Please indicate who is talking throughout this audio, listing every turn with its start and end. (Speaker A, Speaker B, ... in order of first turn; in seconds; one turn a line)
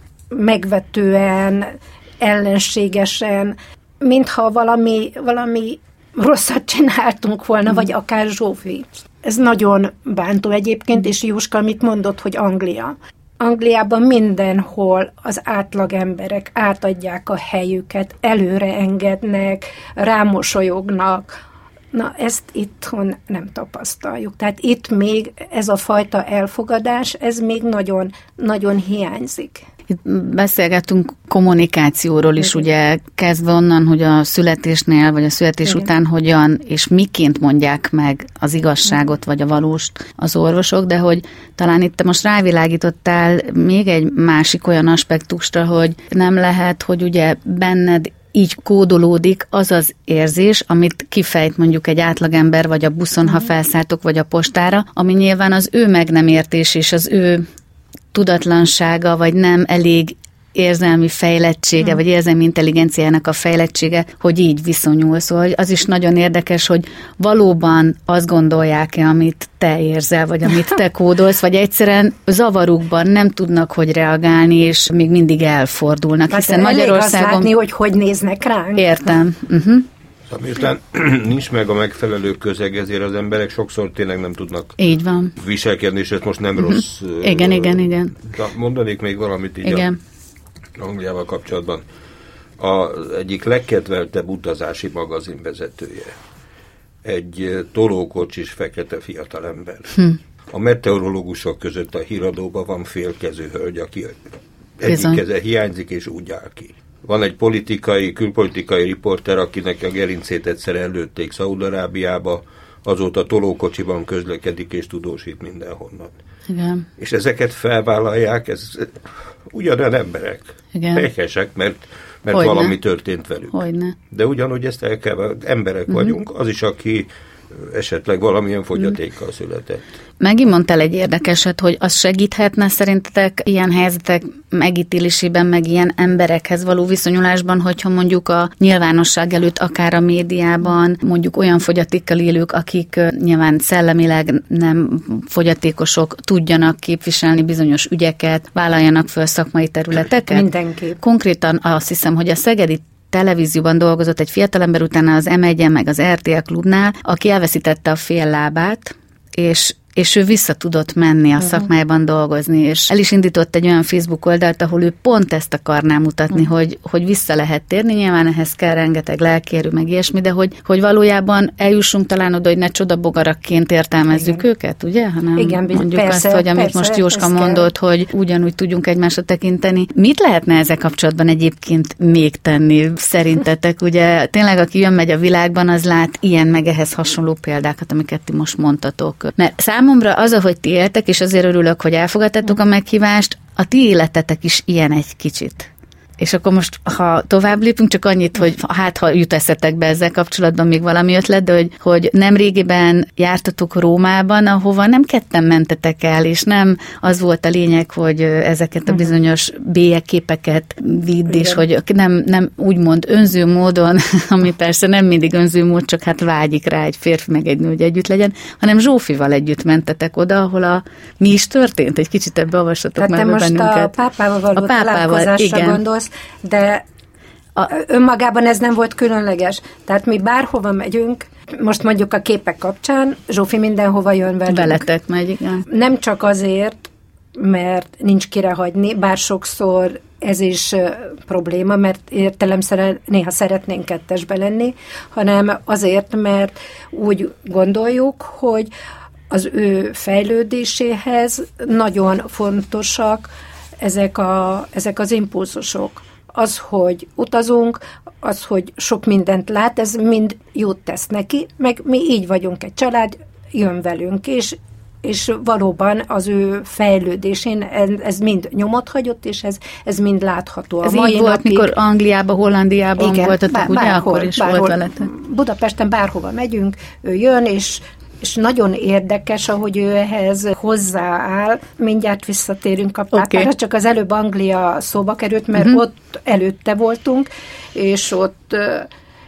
Speaker A: 0.3-21.3
Speaker A: 21.9-29.6
Speaker B: 29.9-57.5
Speaker B: 58.1-77.5
Speaker A: 76.3-78.9
Speaker B: 78.8-79.9
Speaker C: 80.3-84.8
Speaker B: 84.8-85.3
Speaker C: 85.3-89.9
Speaker B: 86.6-88.2
Speaker B: 89.6-90.0
Speaker C: 90.8-91.8
Speaker C: 92.6-96.2
Speaker C: 97.0-100.0
Speaker C: 100.5-116.1
Speaker B: 104.9-105.2
Speaker B: 116.5-116.8
Speaker C: 117.0-129.9
Speaker B: 120.7-121.0
Speaker B: 122.3-122.7
Speaker B: 123.5-124.0
Speaker B: 130.2-150.4
Speaker A: 150.3-151.0
Speaker B: 151.0-223.9
Speaker A: 175.3-177.7
Speaker A: 223.0-226.8
Speaker B: 224.6-225.8
Speaker A: 227.7-234.8
Speaker B: 234.5-235.6
Speaker A: 235.7-248.7
Speaker A: 249.3-271.7
Speaker B: 270.8-275.1
Speaker A: 273.0-288.9
Speaker B: 283.1-283.5